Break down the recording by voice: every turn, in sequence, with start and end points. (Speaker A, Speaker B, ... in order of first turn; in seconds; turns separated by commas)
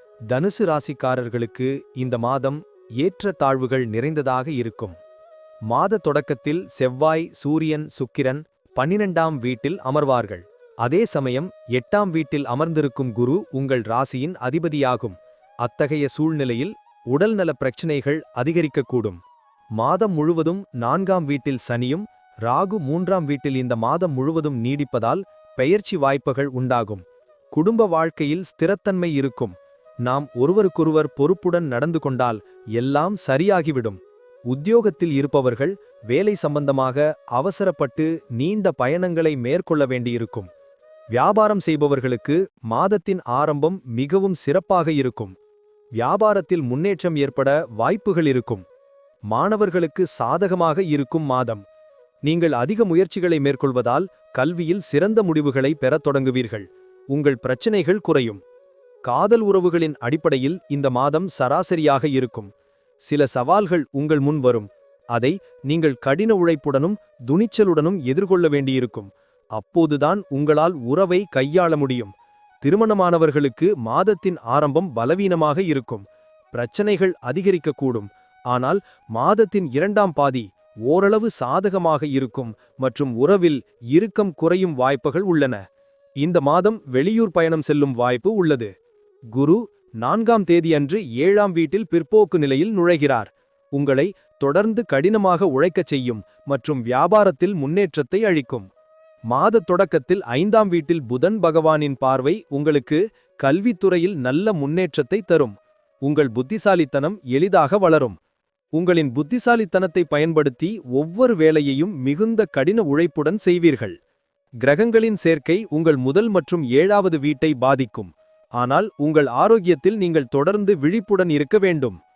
Speaker A: 0.3-5.0, Speaker A: 5.7-19.2, Speaker A: 19.8-40.5, Speaker A: 41.1-45.3, Speaker A: 46.0-48.6, Speaker A: 49.3-51.6, Speaker A: 52.2-58.4, Speaker A: 59.1-62.5, Speaker A: 63.1-72.1, Speaker A: 72.6-85.6, Speaker A: 86.2-88.7, Speaker A: 89.3-98.7, Speaker A: 99.3-108.2, Speaker A: 108.8-114.0, Speaker A: 114.6-122.0